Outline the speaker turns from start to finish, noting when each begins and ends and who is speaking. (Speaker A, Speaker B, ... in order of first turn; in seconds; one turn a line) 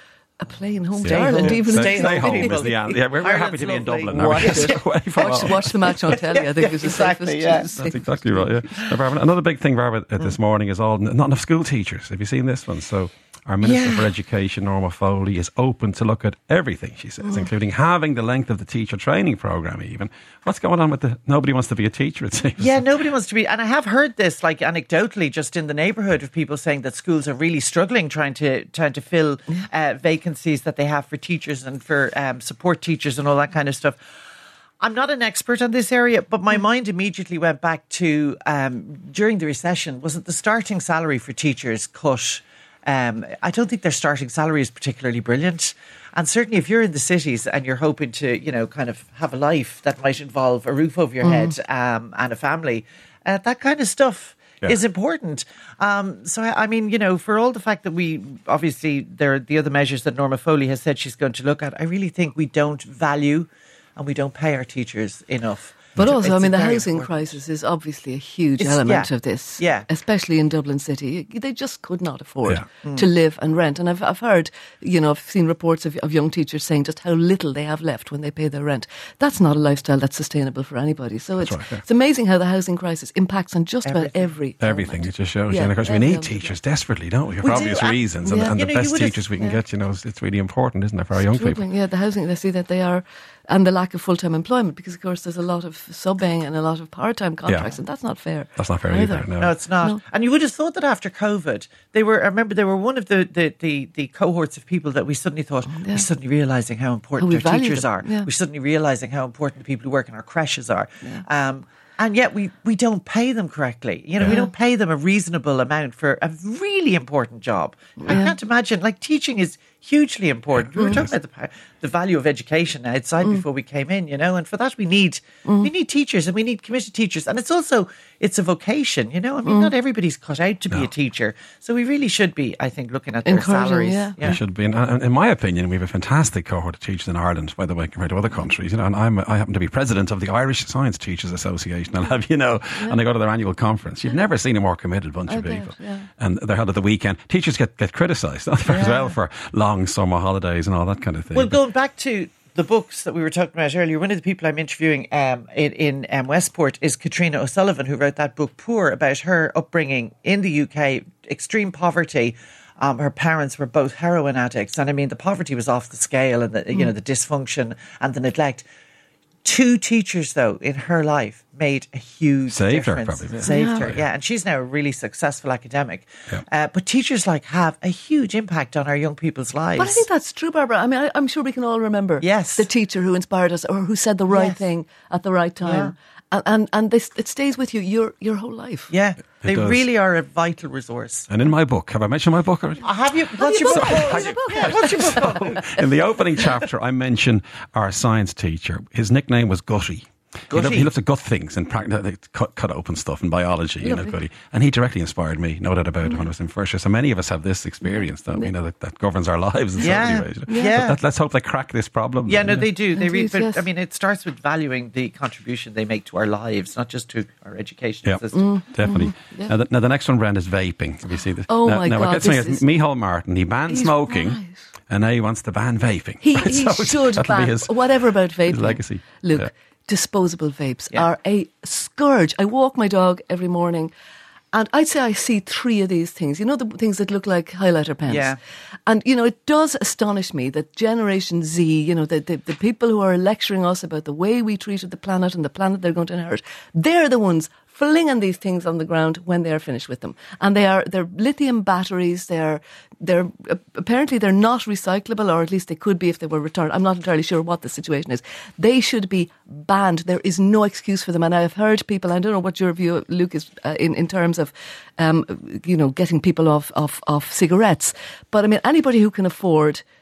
Speaker A: 0.4-3.0
Speaker B: 0.9-7.7
Speaker C: 1.0-5.9
Speaker A: 4.1-8.7
Speaker C: 7.8-22.8
Speaker B: 13.6-14.1
Speaker A: 17.2-17.5
Speaker B: 22.6-34.0
Speaker B: 34.8-67.3
Speaker A: 51.2-51.5
Speaker A: 66.0-86.5
Speaker B: 68.6-69.8
Speaker C: 81.4-81.8
Speaker B: 83.8-84.3
Speaker C: 84.6-91.6
Speaker B: 87.4-89.2
Speaker A: 88.2-88.6
Speaker A: 91.1-100.0
Speaker C: 97.5-97.7
Speaker C: 98.5-99.5
Speaker B: 99.4-134.4
Speaker A: 105.7-106.0
Speaker A: 107.2-108.3
Speaker A: 118.0-118.3
Speaker C: 120.5-121.1
Speaker A: 125.4-125.7
Speaker A: 129.4-129.7
Speaker A: 133.2-134.3
Speaker C: 134.2-151.6
Speaker A: 145.2-146.1
Speaker B: 148.7-149.1
Speaker B: 151.3-168.7
Speaker B: 169.4-180.0
Speaker C: 172.5-174.0
Speaker A: 173.5-173.9
Speaker A: 179.8-188.9
Speaker B: 182.2-182.7
Speaker B: 184.3-184.6
Speaker B: 185.6-185.9
Speaker B: 188.9-191.3
Speaker C: 189.4-189.8
Speaker C: 191.3-192.9
Speaker B: 192.8-195.8
Speaker A: 193.4-195.6
Speaker C: 193.7-212.7
Speaker B: 200.5-200.9
Speaker A: 203.8-204.2
Speaker A: 207.8-208.5
Speaker B: 209.8-211.0
Speaker A: 210.5-210.8
Speaker B: 212.3-218.5
Speaker A: 212.9-213.6
Speaker C: 218.0-229.5
Speaker A: 218.3-219.5
Speaker A: 221.5-222.6
Speaker A: 223.7-224.7
Speaker A: 226.2-233.9
Speaker A: 234.5-269.8
Speaker B: 238.1-238.4